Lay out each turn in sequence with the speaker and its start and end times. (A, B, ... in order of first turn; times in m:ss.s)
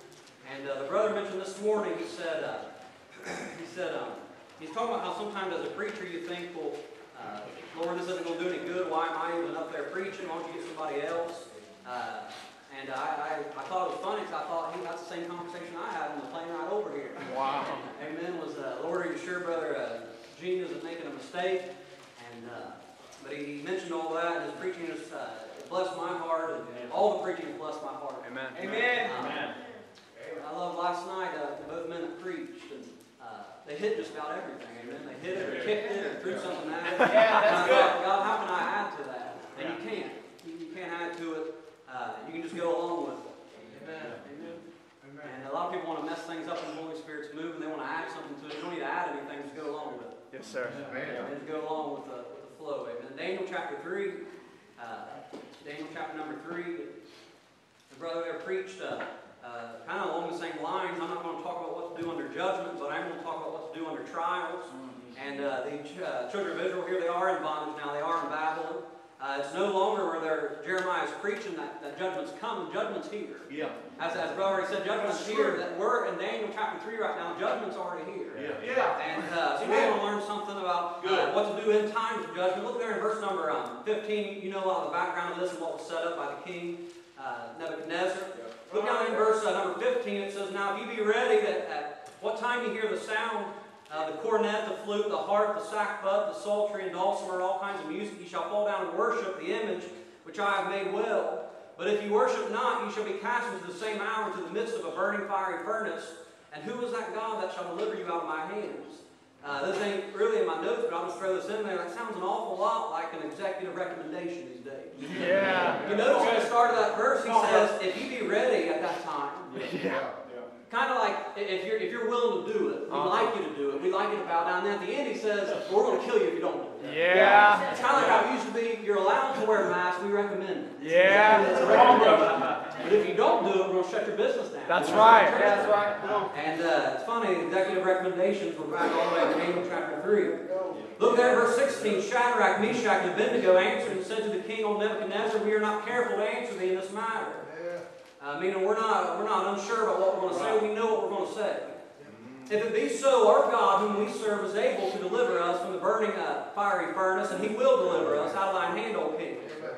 0:00.4-0:29.5 A
0:17.4-0:17.7 B
0:28.5-0:29.6 C
0:30.2-0:43.4 A
0:36.9-0:38.0 C
0:43.7-0:44.3 C
0:45.2-0:50.3 A
0:50.3-0:51.0 B
0:51.0-0:54.2 A
0:54.8-0:56.9 A
0:57.9-1:59.7 A
1:18.6-1:19.0 C
1:55.2-1:55.7 B
1:55.3-1:55.7 C
1:59.6-2:00.0 B
2:00.7-2:20.4 A
2:07.1-2:07.6 C
2:10.8-2:11.2 B
2:14.9-2:15.3 B
2:21.0-2:27.5 A
2:28.2-2:31.8 A
2:32.5-2:39.6 A